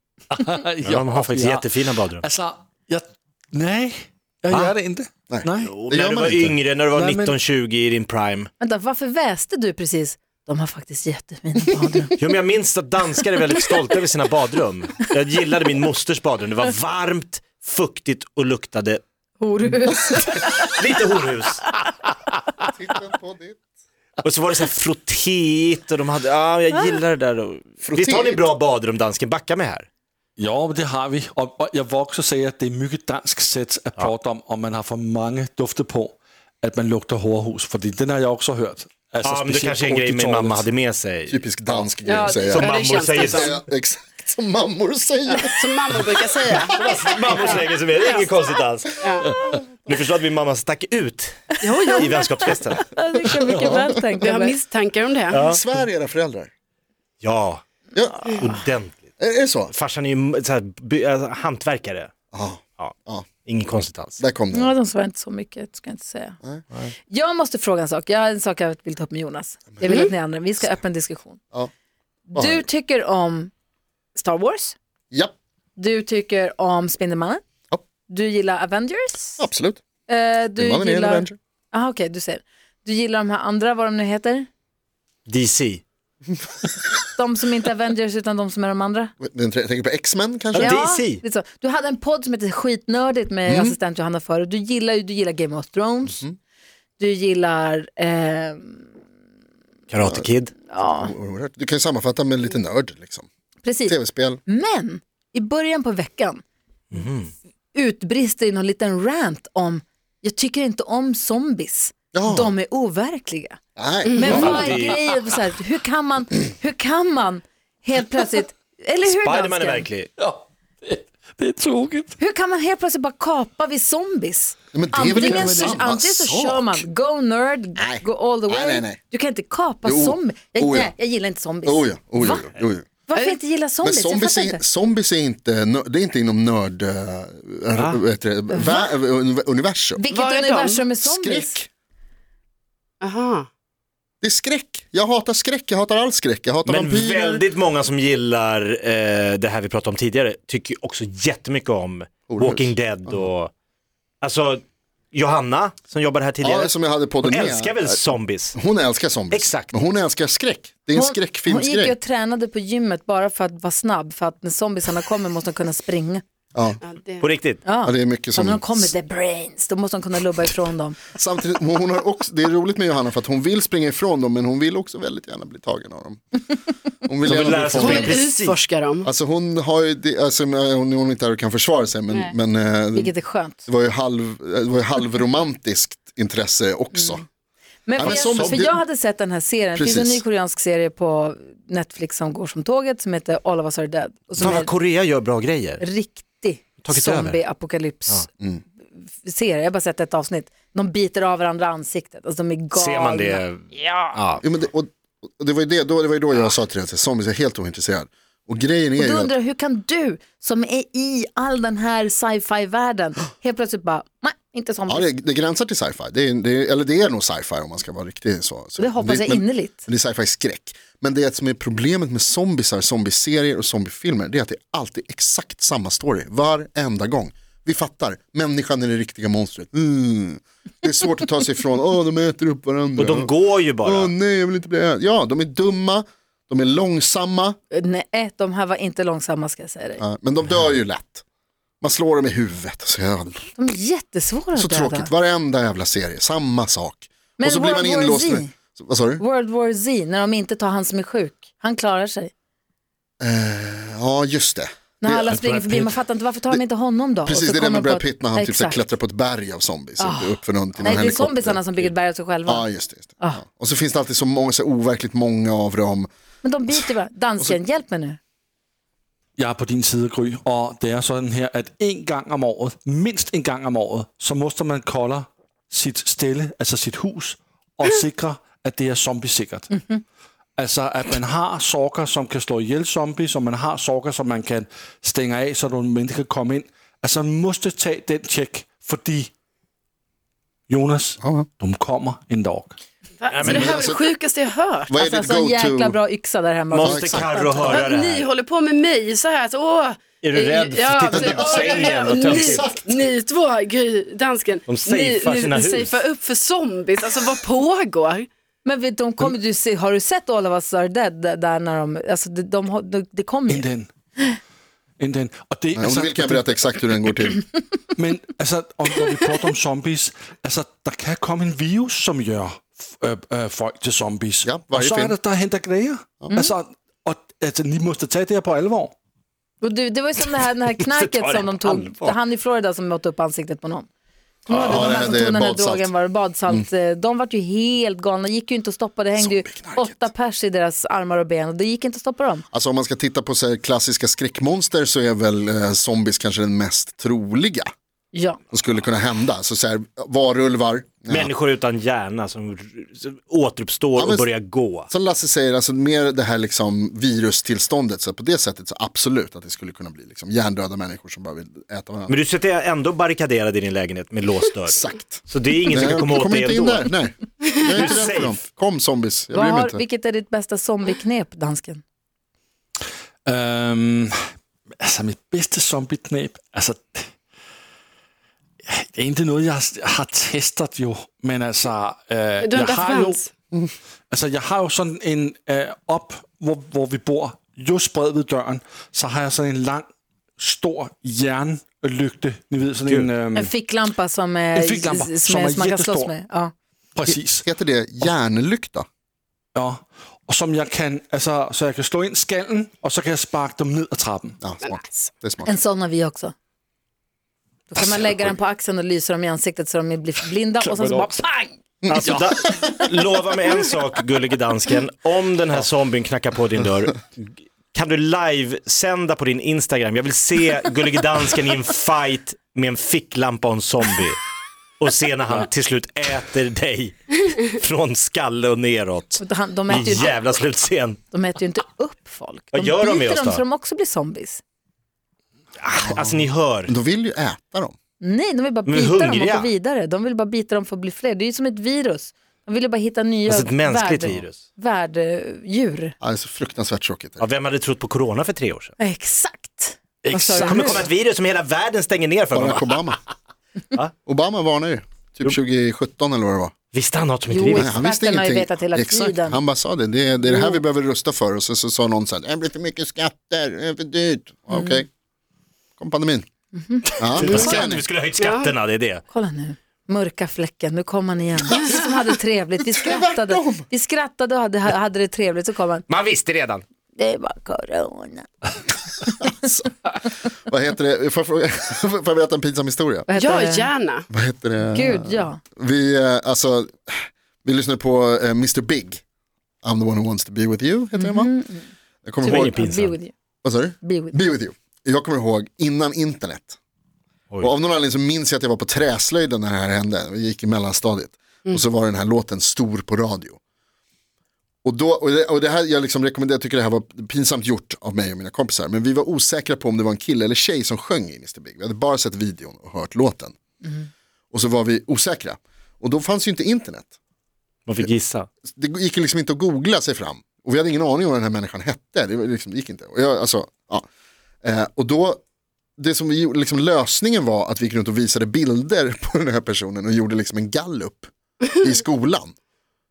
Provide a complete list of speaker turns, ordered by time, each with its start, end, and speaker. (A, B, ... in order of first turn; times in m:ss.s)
0:00.3-0:05.8 A
0:00.8-0:02.2 B
0:05.3-0:06.6 C
0:05.6-0:08.5 B
0:06.9-0:07.4 A
0:08.6-0:12.2 D
0:12.2-0:19.0 B
0:19.4-0:20.7 D
0:20.6-0:21.6 B
0:22.6-0:23.6 C
0:24.2-0:29.9 B
0:27.8-0:28.4 C
0:30.4-0:40.7 A
0:39.2-0:43.6 B
0:41.3-0:42.7 C
0:42.0-0:43.6 E
0:43.3-0:45.5 C
0:45.3-0:48.3 E
0:46.5-0:52.8 B
0:49.0-0:49.3 E
0:51.6-0:52.7 E
0:51.8-0:52.2 D
0:52.8-0:54.6 D
0:54.2-0:55.5 E
0:55.3-0:55.6 B
0:55.4-0:56.5 C
0:57.2-0:57.6 B
0:57.9-0:58.6 C
0:58.4-0:59.0 B
0:59.2-0:59.7 C
0:59.7-1:02.1 B
1:02.3-1:03.3 C
1:02.8-1:04.2 B
1:04.2-1:04.7 C
1:04.5-1:06.4 D
1:06.4-1:06.8 C
1:07.1-1:11.4 D
1:09.8-1:10.1 E
1:12.3-1:13.5 D
1:12.3-1:12.6 C
1:14.1-1:14.8 D
1:15.8-1:17.4 D
1:18.1-1:19.4 D
1:19.4-1:19.8 C
1:20.1-1:24.5 D
1:20.6-1:21.4 C
1:25.3-1:25.8 B
1:27.2-1:29.1 D
1:29.2-1:30.8 C
1:30.5-1:31.2 B
1:30.6-1:36.2 D
1:33.4-1:33.8 C
1:37.0-1:38.9 D
1:39.9-1:40.5 B
1:40.0-1:40.3 C
1:40.7-1:41.1 D
1:40.9-1:43.3 C
1:43.6-1:46.4 D
1:43.8-1:44.4 C
1:46.9-1:47.3 B
1:47.7-1:53.6 D
1:52.1-1:52.5 C
1:53.8-1:54.8 C
1:54.0-1:54.4 E
1:54.2-1:59.9 D
1:54.2-1:55.0 B
1:59.0-2:00.1 B
2:00.2-2:02.1 A
2:02.2-2:12.5 D
2:04.7-2:06.8 C
2:05.2-2:05.8 A
2:07.8-2:09.0 C
2:09.8-2:10.9 C
2:11.6-2:12.8 C
2:13.1-2:14.6 D
2:13.8-2:20.0 C
2:17.7-2:18.0 B
2:18.5-2:18.9 D
2:20.0-2:21.6 D
2:20.1-2:20.9 E
2:21.0-2:21.7 C
2:23.0-2:23.5 E
2:24.2-2:27.4 C
2:26.6-2:33.5 B
2:32.3-2:33.3 C
2:34.2-2:34.6 B
2:35.1-2:38.6 B
2:36.4-2:38.0 C
2:38.5-2:42.0 C
2:39.3-2:39.8 B
2:40.9-2:46.2 D
2:46.5-2:46.8 C
2:46.8-2:47.3 E
2:47.2-2:47.6 B
2:47.6-2:51.0 D
2:47.8-2:48.9 C
2:51.1-2:58.2 C
2:57.2-2:58.6 B
2:57.7-2:59.1 E
2:59.0-3:03.1 C
3:02.1-3:02.3 E
3:02.9-3:03.6 D
3:03.6-3:07.2 C
3:07.8-3:14.7 D
3:08.0-3:08.8 C
3:08.0-3:08.7 B
3:09.7-3:10.2 C
3:14.4-3:15.8 B
3:15.8-3:18.3 D
3:16.8-3:17.4 B
3:19.2-3:24.1 D
3:22.7-3:24.4 B
3:24.4-3:29.3 C
3:29.0-3:35.1 D
3:34.9-3:57.6 C
3:38.8-3:39.8 D
3:53.0-3:54.1 B
3:57.7-4:00.0 D
4:00.0-4:01.2 C
4:01.8-4:03.5 C
4:03.6-4:05.1 D
4:04.5-4:09.2 C
4:07.4-4:08.5 D
4:09.2-4:12.3 D
4:13.2-4:15.4 C
4:15.0-4:18.8 D
4:15.3-4:15.9 A
4:17.2-4:21.9 C
4:20.0-4:22.7 D
4:22.4-4:26.1 C
4:26.4-4:28.2 D
4:26.7-4:27.6 C
4:29.4-4:39.8 A
4:40.6-4:49.3 A
4:50.7-4:52.8 A
4:51.2-4:51.5 C
4:53.2-4:55.0 E
4:53.3-4:53.8 B
4:53.5-4:54.0 C
4:54.9-4:56.0 C
4:55.0-4:57.9 D
4:56.7-4:58.3 B
4:56.8-4:57.5 C
4:57.7-5:08.3 E
5:00.2-5:02.7 B
5:01.1-5:03.0 C
5:04.6-5:06.0 B
5:08.6-5:13.6 D
5:13.5-5:13.9 A
5:15.0-5:17.0 A
5:15.7-5:17.4 C
5:18.0-5:28.9 A
5:24.4-5:25.2 C
5:29.6-5:33.9 D
5:30.8-5:32.2 B
5:34.4-5:42.4 D
5:34.5-5:35.9 C
5:39.2-5:40.1 C
5:42.5-5:47.7 C
5:48.1-5:48.4 D
5:48.5-5:51.3 C
5:51.1-5:54.9 B
5:54.0-5:54.3 C
5:54.9-6:02.2 C
6:02.1-6:06.9 B
6:04.7-6:09.8 C
6:07.7-6:08.4 B
6:09.3-6:11.8 D
6:13.2-6:14.1 A
6:14.8-6:17.1 A
6:18.7-6:23.2 A
6:22.4-6:23.3 E
6:24.1-6:29.9 A
6:30.4-6:33.5 A
6:32.8-6:33.1 B
6:33.3-6:36.5 D
6:34.5-6:36.1 A
6:37.0-6:37.4 A
6:37.1-6:38.8 C
6:39.5-6:44.4 A
6:44.4-6:45.6 C
6:44.6-6:45.1 E
6:45.4-6:46.3 D
6:47.7-6:51.6 D
6:50.6-6:51.1 A
6:51.9-7:04.2 B
6:51.9-6:52.2 A
7:04.8-7:11.0 B
7:09.2-7:10.2 D
7:11.1-7:14.4 D
7:12.5-7:13.4 B
7:15.6-7:16.7 B
7:15.9-7:17.7 C
7:18.0-7:25.9 D
7:18.6-7:19.5 B
7:23.3-7:24.4 B
7:26.0-7:27.3 C
7:27.2-7:28.7 B
7:28.8-7:30.9 D
7:30.0-7:30.8 A
7:30.4-7:32.8 B
7:32.3-7:33.0 C
7:34.0-7:36.5 C
7:36.7-7:37.8 B
7:37.3-7:39.4 D
7:37.5-7:44.9 C
7:40.2-7:40.6 D
7:44.5-7:44.8 D
7:45.8-7:46.2 C
7:46.5-7:46.8 D
7:46.9-7:49.0 B
7:47.0-7:47.9 C
7:47.2-7:48.5 E
7:49.1-7:55.8 D
7:52.8-7:53.6 C
7:55.9-7:56.6 B
7:56.9-7:58.3 D
7:59.2-8:03.1 C
8:03.1-8:03.7 D
8:03.1-8:04.1 E
8:04.1-8:09.0 C
8:04.7-8:05.4 D
8:09.6-8:11.3 C
8:10.9-8:11.7 D
8:12.0-8:12.6 C
8:12.2-8:13.1 D
8:12.2-8:13.0 B
8:13.4-8:16.6 C
8:13.8-8:14.2 D
8:17.4-8:23.4 C
8:24.6-8:33.4 C
8:34.3-8:36.9 C
8:37.6-8:38.3 B
8:38.5-8:43.8 C
8:44.4-8:45.2 C
8:45.8-8:52.3 C